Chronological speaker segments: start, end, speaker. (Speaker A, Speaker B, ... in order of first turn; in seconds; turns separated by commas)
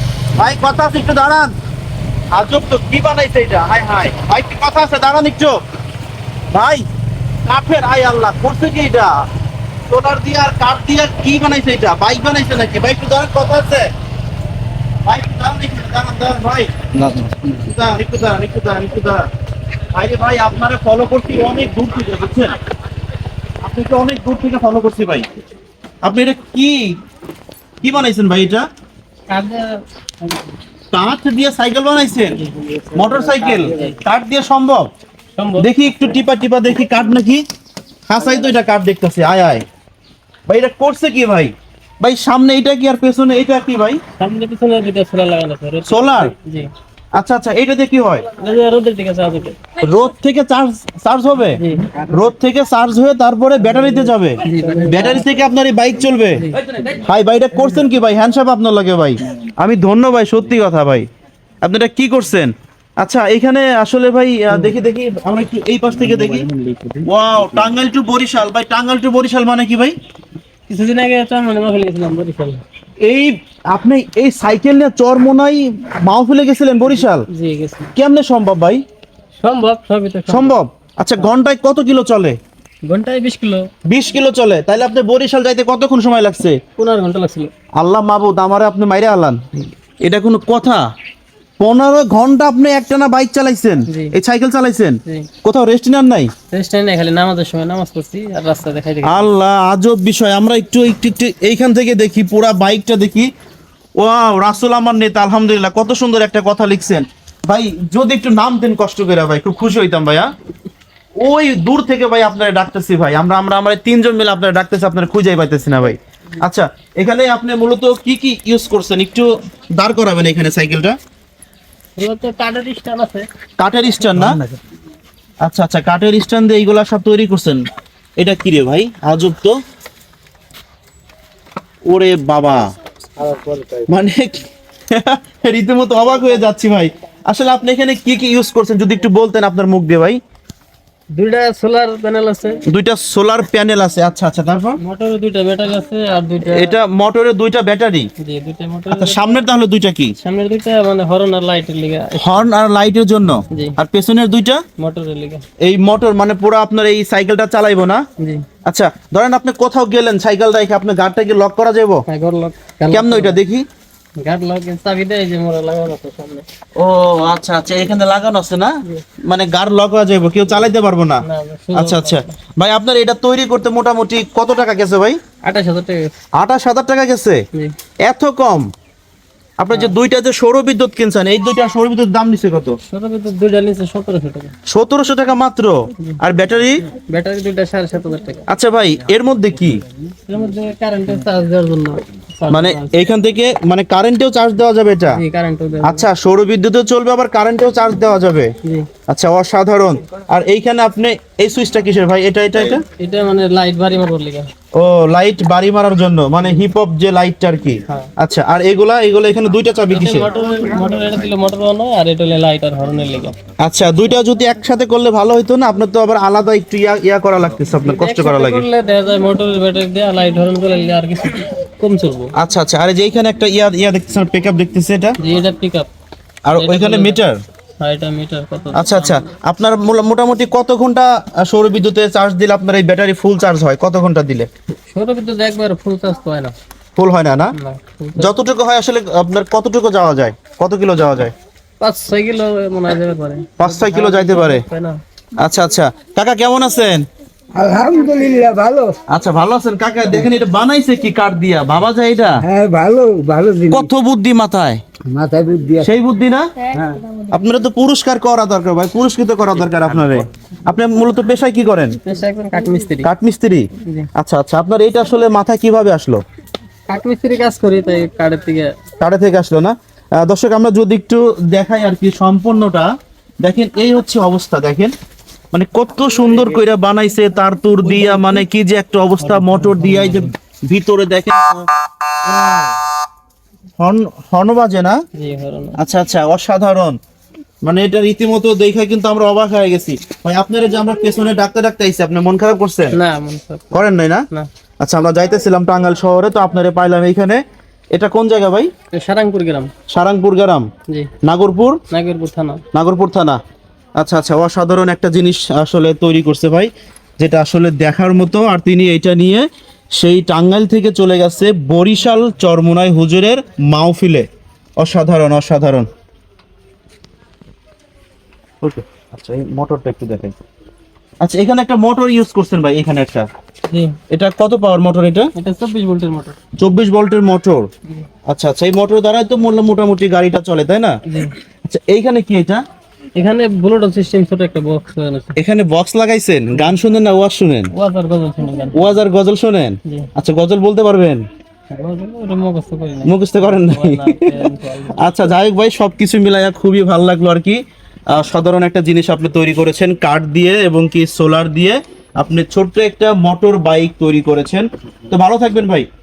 Speaker A: 0.4-1.5, Speaker A: 2.3-5.6, Speaker A: 6.5-6.8, Speaker A: 7.4-9.2, Speaker A: 9.9-13.9, Speaker A: 15.0-19.3, Speaker A: 19.9-22.6, Speaker A: 23.6-25.3, Speaker A: 26.0-27.0, Speaker A: 27.8-28.6, Speaker B: 29.3-30.4, Speaker A: 30.9-32.4, Speaker B: 32.4-32.7, Speaker C: 32.7-33.9, Speaker A: 32.9-34.9, Speaker B: 33.4-34.0, Speaker B: 35.4-36.2, Speaker A: 35.6-37.4, Speaker A: 38.1-39.6, Speaker A: 40.5-44.0, Speaker B: 44.2-46.7, Speaker A: 45.9-46.3, Speaker A: 47.1-48.3, Speaker B: 48.4-49.6, Speaker A: 49.8-61.1, Speaker B: 51.6-51.9, Speaker B: 54.4-55.3, Speaker C: 54.6-54.9, Speaker B: 56.3-56.6, Speaker A: 61.6-69.9, Speaker C: 66.5-66.9, Speaker B: 70.7-72.6, Speaker A: 73.0-77.2, Speaker B: 76.9-77.9, Speaker A: 77.9-78.8, Speaker B: 79.4-80.6, Speaker A: 80.3-82.4, Speaker B: 82.9-83.7, Speaker A: 83.8-86.6, Speaker B: 86.8-87.5, Speaker A: 87.8-89.4, Speaker A: 90.0-90.8, Speaker A: 91.6-96.3, Speaker B: 93.9-94.1, Speaker B: 96.5-99.3, Speaker A: 99.0-103.3, Speaker A: 104.0-110.3, Speaker A: 111.2-121.0, Speaker B: 122.0-123.3, Speaker A: 123.6-124.4, Speaker C: 124.2-124.6, Speaker A: 125.4-127.6, Speaker A: 128.2-129.6, Speaker A: 131.8-132.7, Speaker C: 133.2-133.9, Speaker A: 133.9-140.2, Speaker B: 141.1-142.6, Speaker A: 142.7-144.8, Speaker B: 144.8-146.8, Speaker A: 146.4-148.1, Speaker B: 148.2-149.3, Speaker A: 148.9-150.1, Speaker B: 150.2-152.5, Speaker A: 152.1-154.6, Speaker B: 154.8-155.4, Speaker A: 155.6-158.0, Speaker B: 158.2-158.4, Speaker A: 158.7-162.0, Speaker B: 162.1-163.4, Speaker A: 162.9-163.6, Speaker B: 164.2-166.4, Speaker A: 166.8-175.2, Speaker B: 171.2-172.3, Speaker B: 175.4-176.1, Speaker A: 176.3-177.4, Speaker A: 178.0-178.7, Speaker A: 179.6-182.8, Speaker B: 179.7-179.9, Speaker B: 182.9-184.5, Speaker A: 184.7-186.9, Speaker B: 186.9-188.4, Speaker A: 188.5-189.8, Speaker B: 190.3-193.0, Speaker A: 192.5-195.2, Speaker B: 195.1-196.1, Speaker A: 195.8-198.5, Speaker A: 199.1-202.8, Speaker B: 203.0-204.5, Speaker A: 204.7-210.3, Speaker B: 209.9-213.3, Speaker A: 213.6-218.6, Speaker B: 217.8-222.3, Speaker A: 222.4-225.2, Speaker B: 225.2-225.9, Speaker A: 226.5-227.4, Speaker B: 226.5-227.2, Speaker B: 227.8-229.3, Speaker A: 228.7-234.5, Speaker B: 234.9-236.5, Speaker A: 237.0-237.5, Speaker B: 237.5-238.3, Speaker A: 238.2-241.3, Speaker B: 241.8-245.0, Speaker A: 243.6-244.6, Speaker A: 245.4-247.1, Speaker C: 247.5-249.0, Speaker A: 249.1-252.4, Speaker C: 252.4-253.9, Speaker A: 253.7-254.8, Speaker C: 255.1-255.9, Speaker A: 255.8-256.6, Speaker C: 256.7-257.0, Speaker A: 257.3-261.9, Speaker B: 262.0-263.1, Speaker A: 263.0-266.2, Speaker B: 266.9-268.7, Speaker A: 269.0-272.9, Speaker A: 273.4-274.9, Speaker A: 275.5-281.7, Speaker B: 277.9-278.4, Speaker B: 279.2-280.3, Speaker A: 283.8-285.0, Speaker B: 285.1-285.8, Speaker A: 285.8-287.0, Speaker A: 287.6-293.0, Speaker B: 292.9-294.5, Speaker A: 293.7-294.2, Speaker A: 294.8-297.4, Speaker A: 297.9-298.7, Speaker B: 298.9-299.7, Speaker A: 299.9-300.7, Speaker A: 301.2-301.8, Speaker B: 301.9-302.6, Speaker A: 302.7-303.4, Speaker A: 304.0-314.3, Speaker A: 314.8-315.9, Speaker A: 318.6-320.4, Speaker A: 321.2-323.2, Speaker B: 323.7-324.0, Speaker A: 324.1-325.3, Speaker B: 325.4-326.4, Speaker A: 326.6-327.7, Speaker A: 328.3-331.0, Speaker B: 331.1-331.3, Speaker A: 331.6-332.6, Speaker B: 333.1-335.4, Speaker A: 335.4-337.7, Speaker B: 337.7-338.9, Speaker A: 338.7-341.2, Speaker B: 341.7-345.2, Speaker A: 343.0-344.4, Speaker A: 344.9-355.9